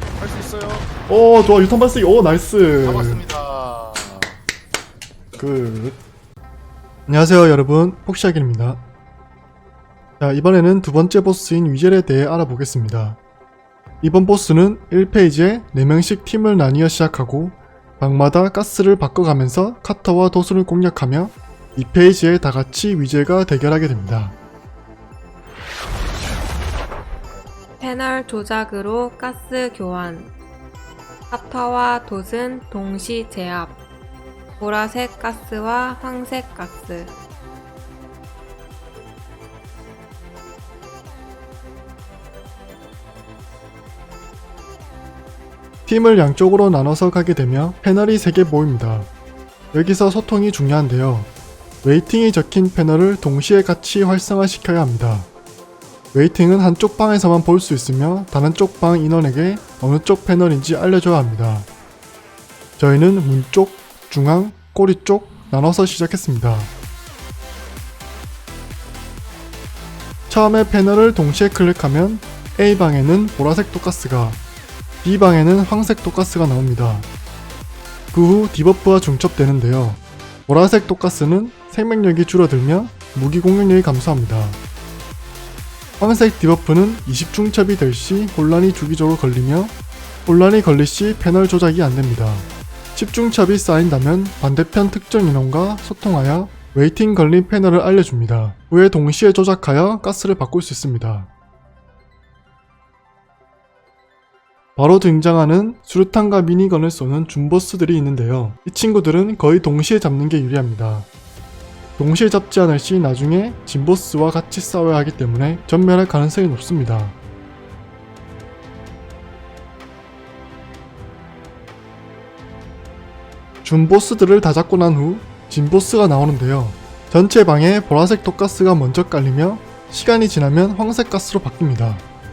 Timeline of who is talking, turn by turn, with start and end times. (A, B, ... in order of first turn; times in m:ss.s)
0:00.2-0:00.9 A
0:01.1-0:03.2 B
0:02.8-0:04.3 A
0:05.4-0:06.0 B
0:07.1-0:08.8 B
0:10.2-0:13.2 B
0:14.0-0:24.4 B
0:27.8-0:30.3 C
0:31.3-0:33.8 C
0:34.6-0:37.2 C
0:45.9-0:49.1 B
0:49.7-0:51.3 B
0:51.8-0:55.3 B
0:56.1-1:01.7 B
1:02.8-1:06.7 B
1:10.3-1:14.4 B
1:15.0-1:17.1 B
1:18.1-1:24.6 B
1:26.0-1:29.7 B
1:30.3-1:41.3 B
1:44.8-1:51.1 B
1:52.0-1:57.2 B
2:03.6-2:12.0 B